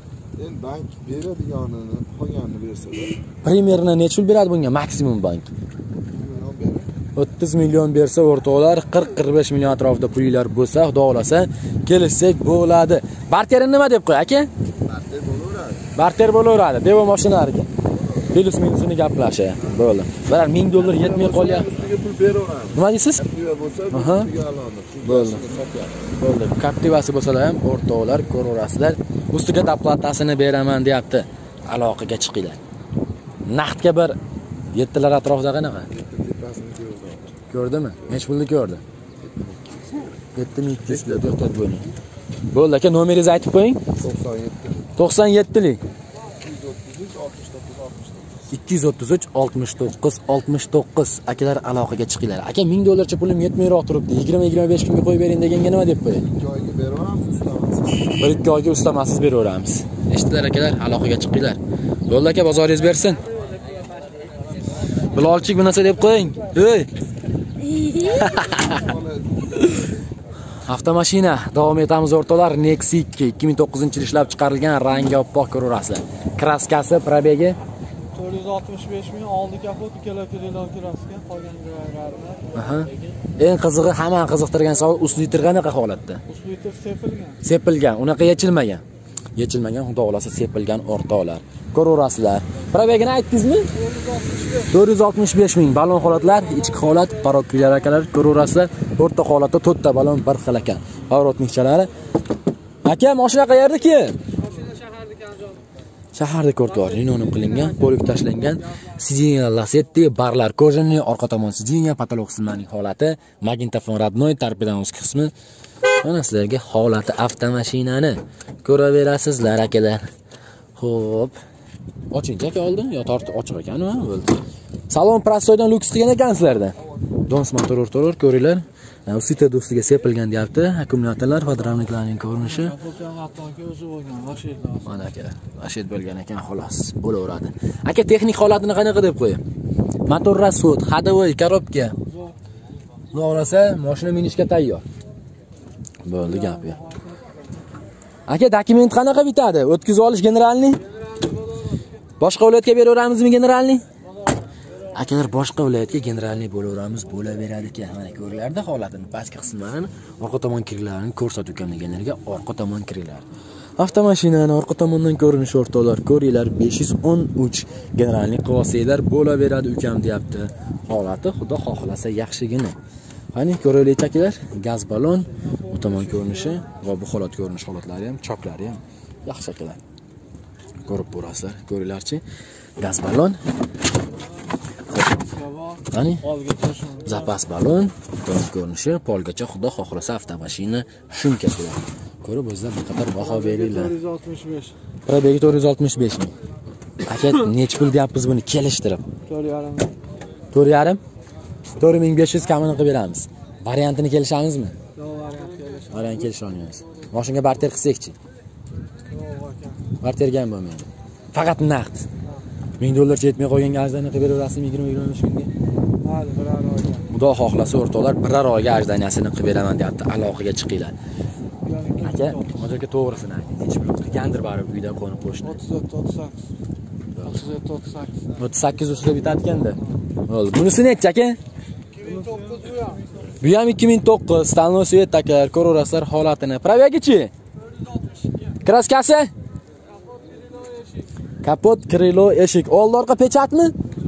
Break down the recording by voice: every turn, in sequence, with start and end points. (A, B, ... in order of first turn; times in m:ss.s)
0:00.4-0:03.2 A
0:03.4-0:05.5 B
0:06.1-0:06.9 A
0:07.2-0:14.5 B
0:14.8-0:15.9 A
0:16.0-0:17.7 B
0:18.0-0:18.2 A
0:18.3-0:21.7 B
0:20.7-0:26.1 A
0:22.7-0:23.2 B
0:23.9-0:24.3 B
0:25.0-0:25.5 B
0:26.2-0:32.6 B
0:33.4-0:34.2 B
0:34.7-0:35.9 B
0:35.9-0:37.3 A
0:37.5-0:38.8 B
0:39.2-0:40.1 A
0:40.3-0:41.9 B
0:40.9-0:41.5 A
0:42.5-0:43.8 B
0:44.0-0:44.9 A
0:45.0-0:45.8 B
0:46.4-0:48.3 A
0:48.5-0:56.3 B
0:56.3-0:58.3 A
0:58.2-1:03.2 B
1:05.1-1:06.9 B
1:07.9-1:08.8 B
1:08.2-1:09.7 A
1:10.6-1:17.6 B
1:18.1-1:22.5 C
1:22.5-1:26.2 B
1:26.3-1:27.4 C
1:27.4-1:28.8 B
1:29.4-1:33.7 B
1:33.8-1:34.7 C
1:34.6-1:41.9 B
1:42.8-1:44.2 B
1:44.4-1:45.5 C
1:46.1-1:55.3 B
1:47.0-1:48.6 C
1:56.0-2:00.0 B
2:00.8-2:01.4 B
2:02.1-2:04.3 B
2:04.9-2:06.7 B
2:07.3-2:12.8 B
2:12.4-2:14.9 C
2:14.8-2:19.4 B
2:20.0-2:22.0 B
2:23.1-2:24.8 B
2:26.0-2:26.8 B
2:26.2-2:27.3 C
2:28.3-2:30.8 B
2:32.2-2:33.8 B
2:34.9-2:43.2 B
2:43.8-2:52.8 B
2:53.3-2:59.8 B
2:55.9-2:56.5 C
3:00.8-3:02.2 B
3:02.8-3:03.4 B
3:05.0-3:07.3 C
3:05.9-3:06.3 B
3:07.0-3:13.9 B
3:13.2-3:14.7 C
3:15.1-3:16.3 B
3:17.0-3:19.0 B
3:19.3-3:19.9 C
3:20.5-3:21.0 B
3:21.8-3:24.7 B
3:25.0-3:26.3 C
3:25.9-3:28.2 B
3:29.1-3:29.8 C
3:30.0-3:32.1 B
3:32.8-3:35.5 B
3:36.0-3:37.0 C
3:37.1-3:40.9 B
3:41.6-3:42.7 C
3:42.0-3:45.6 B
3:45.4-3:46.4 C
3:47.2-3:47.5 B
3:47.3-3:48.3 C
3:48.4-3:51.4 B
3:52.0-3:53.0 C
3:53.4-3:57.3 B
3:58.6-3:59.3 B
4:01.4-4:03.7 B